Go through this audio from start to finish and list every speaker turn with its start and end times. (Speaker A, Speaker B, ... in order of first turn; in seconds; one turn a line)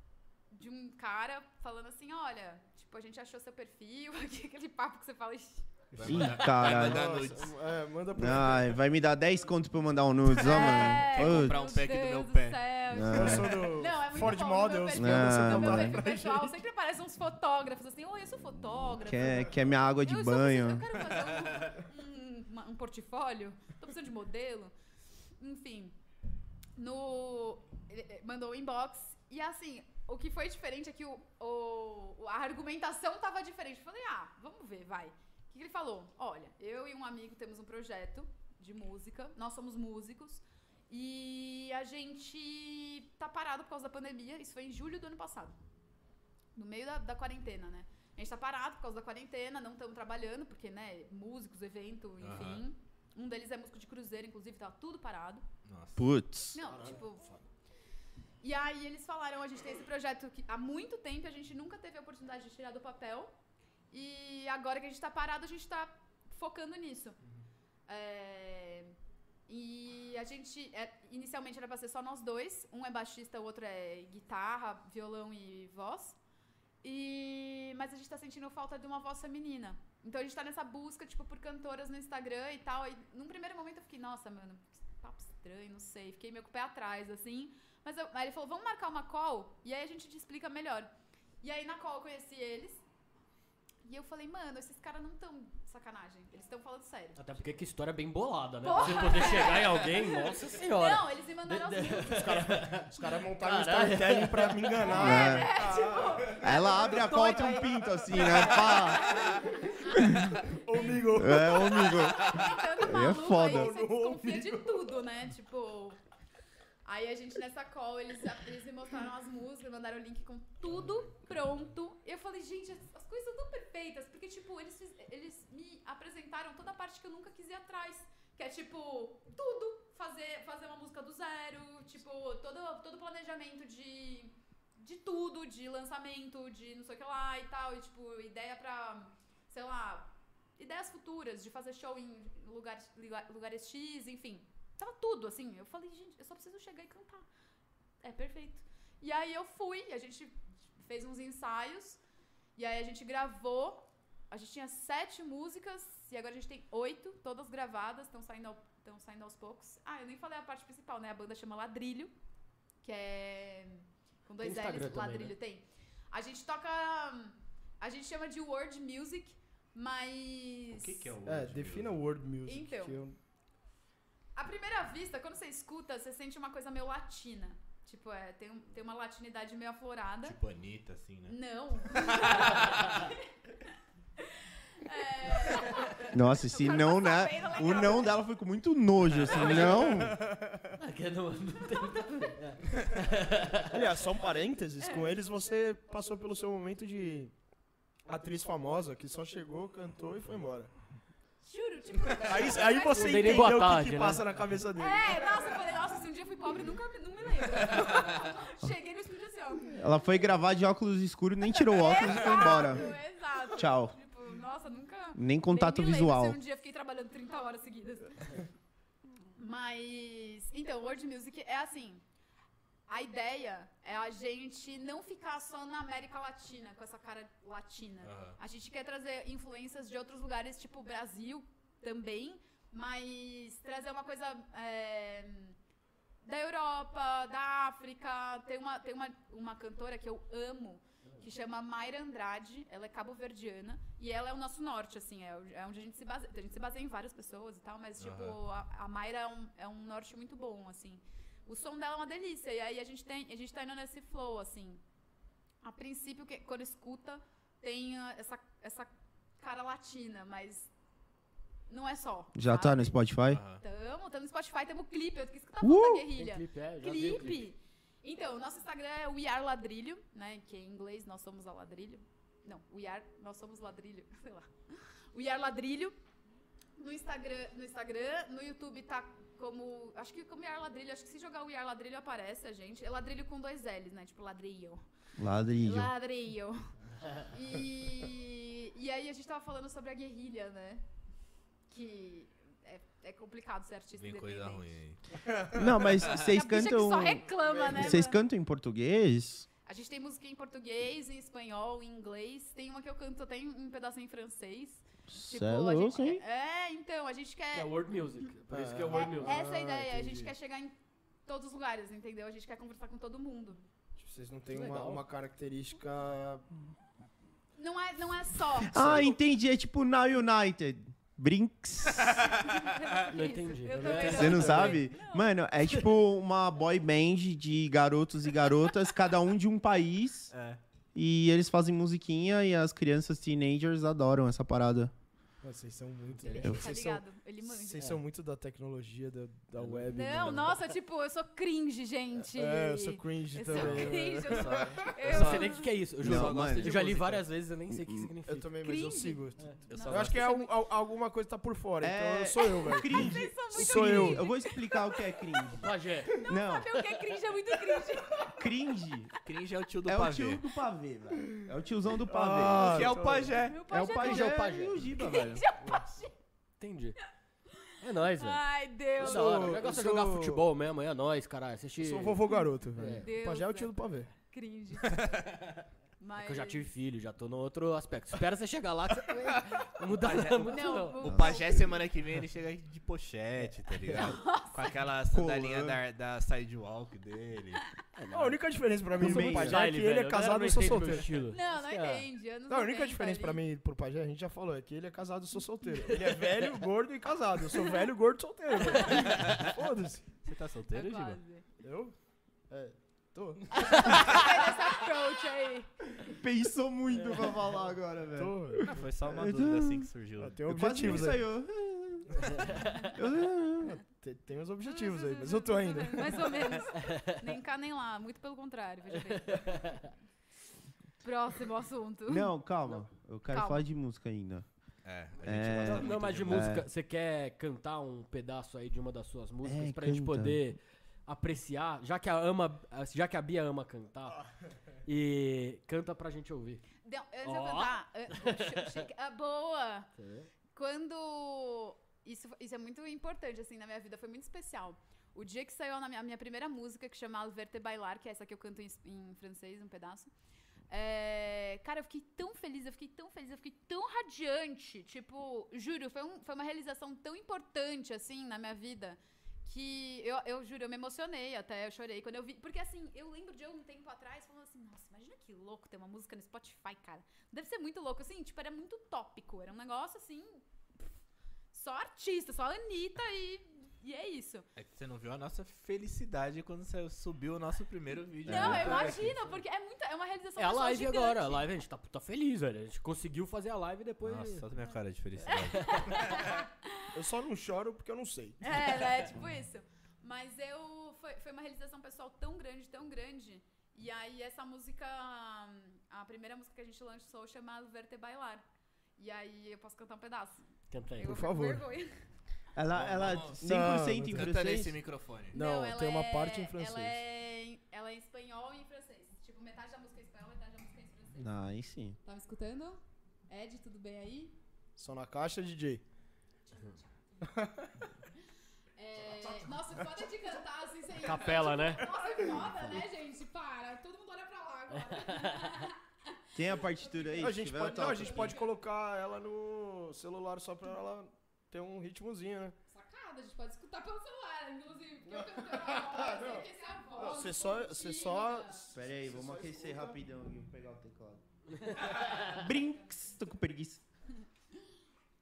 Speaker A: 0.5-5.7
Speaker B: 5.9-7.6
Speaker C: 6.0-8.8
Speaker D: 6.0-7.1
Speaker D: 8.2-11.7
Speaker A: 10.3-24.7
Speaker B: 10.4-12.7
Speaker D: 12.9-13.6
Speaker C: 13.0-16.6
Speaker D: 14.9-16.0
Speaker D: 18.8-20.9
Speaker A: 25.4-26.0
Speaker A: 26.8-45.6
Speaker A: 46.5-55.5
Speaker B: 52.2-52.7
Speaker B: 55.6-56.1
Speaker D: 56.0-56.6
Speaker A: 56.5-57.4
Speaker E: 56.6-57.3
Speaker A: 58.4-63.3
Speaker A: 63.9-67.2
Speaker A: 67.9-69.0
Speaker A: 69.5-76.2
Speaker A: 76.8-90.9
Speaker A: 91.4-92.8
Speaker A: 93.8-97.2
Speaker E: 97.2-104.9
Speaker A: 98.6-102.6
Speaker C: 102.1-106.7
Speaker A: 104.8-116.0
Speaker D: 104.9-105.5
Speaker D: 106.4-109.3
Speaker C: 109.2-112.4
Speaker D: 110.0-110.4
Speaker D: 110.9-113.7
Speaker C: 113.0-114.9
Speaker A: 116.8-147.3
Speaker A: 148.0-152.0
Speaker A: 152.6-162.1
Speaker A: 162.8-171.1
Speaker E: 164.4-165.3
Speaker B: 170.7-172.0
Speaker C: 171.2-173.2
Speaker A: 172.4-173.0
Speaker A: 174.4-180.4
Speaker B: 180.2-183.1
Speaker A: 181.3-183.3
Speaker A: 184.2-188.2
Speaker D: 186.1-190.2
Speaker C: 189.5-190.7
Speaker E: 190.8-193.8
Speaker C: 193.7-197.3
Speaker C: 198.1-200.7
Speaker A: 201.4-203.8
Speaker C: 202.1-205.3
Speaker E: 202.8-204.2
Speaker A: 204.8-209.8
Speaker D: 209.7-213.0
Speaker A: 211.4-218.4
Speaker D: 213.6-213.9
Speaker D: 215.2-216.4
Speaker A: 219.4-222.0
Speaker A: 222.9-235.6
Speaker B: 228.0-228.4
Speaker A: 236.2-254.8
Speaker B: 248.0-248.4
Speaker A: 255.6-260.7
Speaker A: 261.7-263.0
Speaker D: 262.4-263.4
Speaker B: 263.3-263.6
Speaker A: 263.5-274.5
Speaker D: 265.6-266.1
Speaker E: 266.1-267.5
Speaker A: 275.1-275.9
Speaker A: 276.8-284.8
Speaker D: 285.2-285.9
Speaker A: 285.6-286.6
Speaker A: 287.2-290.8
Speaker A: 291.7-294.7
Speaker B: 293.9-295.0
Speaker D: 295.5-299.5
Speaker A: 296.1-298.2
Speaker C: 297.3-298.0
Speaker A: 299.6-307.8
Speaker D: 305.1-306.2
Speaker E: 307.5-309.4
Speaker C: 308.5-310.3
Speaker A: 308.9-310.8
Speaker A: 311.3-313.6
Speaker C: 314.0-316.5
Speaker E: 314.5-315.0
Speaker A: 317.6-319.1
Speaker D: 318.6-322.3
Speaker A: 322.2-325.8
Speaker E: 323.1-324.8
Speaker C: 323.7-324.7
Speaker D: 324.1-330.3
Speaker B: 330.3-330.6
Speaker D: 330.9-334.9
Speaker C: 335.4-340.7
Speaker A: 336.2-337.9
Speaker A: 339.9-345.7
Speaker C: 342.3-344.9
Speaker B: 343.5-347.2
Speaker E: 345.0-348.5
Speaker D: 346.0-346.8
Speaker D: 347.7-348.1
Speaker C: 348.3-354.2
Speaker A: 348.6-350.5
Speaker B: 349.7-350.2
Speaker D: 351.8-355.7
Speaker A: 352.6-355.6
Speaker E: 355.6-356.3
Speaker A: 356.2-358.5
Speaker D: 356.3-356.9
Speaker D: 358.2-359.1
Speaker B: 359.3-360.4
Speaker D: 359.9-363.0
Speaker C: 362.0-363.4
Speaker B: 362.5-363.6
Speaker A: 363.4-366.1
Speaker D: 363.7-365.4
Speaker E: 363.9-364.9
Speaker C: 365.6-365.9
Speaker E: 366.6-367.0
Speaker A: 367.5-369.6
Speaker E: 367.8-368.4
Speaker C: 369.0-370.5
Speaker E: 369.0-372.2
Speaker C: 371.8-374.1
Speaker E: 372.8-373.1
Speaker A: 373.0-375.2
Speaker B: 374.9-375.2
Speaker A: 376.0-376.7
Speaker E: 376.2-381.1
Speaker B: 380.0-387.7
Speaker A: 380.4-381.6
Speaker D: 381.1-381.4
Speaker A: 384.0-384.7
Speaker D: 385.1-385.8
Speaker D: 388.1-388.3
Speaker C: 388.1-391.2
Speaker D: 389.0-389.6
Speaker E: 389.0-392.1
Speaker A: 391.2-393.4
Speaker C: 392.5-400.1
Speaker A: 397.6-397.8
Speaker E: 398.8-399.5
Speaker B: 398.9-399.5
Speaker B: 400.2-401.2
Speaker A: 400.7-401.4
Speaker C: 401.6-401.9
Speaker C: 402.5-404.4
Speaker A: 403.7-405.7
Speaker D: 406.1-409.9
Speaker C: 408.1-408.8
Speaker B: 408.6-411.2
Speaker C: 410.2-411.3
Speaker D: 410.5-413.8
Speaker C: 412.2-412.6
Speaker C: 413.6-416.6
Speaker A: 414.6-419.9
Speaker E: 416.8-417.2
Speaker E: 419.0-419.9
Speaker A: 421.0-422.3
Speaker D: 422.1-424.5
Speaker A: 423.3-423.6
Speaker B: 424.9-426.5
Speaker D: 425.2-426.7
Speaker E: 425.6-434.2
Speaker D: 429.4-430.4
Speaker E: 434.9-436.6
Speaker A: 436.8-439.9
Speaker E: 437.2-438.8
Speaker E: 440.0-440.3
Speaker A: 440.5-450.1
Speaker A: 450.7-470.4
Speaker A: 471.5-474.5
Speaker B: 474.6-479.1
Speaker D: 478.3-478.8
Speaker A: 478.3-481.5
Speaker E: 478.6-479.1
Speaker E: 480.4-484.5
Speaker B: 484.0-486.3
Speaker A: 485.3-486.9
Speaker E: 485.3-485.9
Speaker C: 486.9-488.6
Speaker A: 488.4-498.5
Speaker A: 499.0-500.4
Speaker E: 500.7-501.2
Speaker A: 501.0-502.1
Speaker C: 501.0-501.6
Speaker D: 502.6-504.8
Speaker B: 502.7-503.4
Speaker C: 503.4-504.3
Speaker B: 504.1-505.4
Speaker A: 505.3-511.4
Speaker C: 505.3-507.0
Speaker D: 511.2-512.0
Speaker A: 512.0-514.4
Speaker C: 514.8-515.8
Speaker A: 516.5-517.2
Speaker C: 517.3-517.7
Speaker A: 518.8-528.5
Speaker C: 519.1-520.3
Speaker E: 521.0-521.9
Speaker C: 522.0-522.5
Speaker D: 522.4-522.7
Speaker E: 524.7-525.6
Speaker D: 526.4-528.4
Speaker C: 527.2-532.6
Speaker A: 532.7-538.7
Speaker C: 535.1-540.0
Speaker D: 538.7-543.8
Speaker A: 541.7-542.9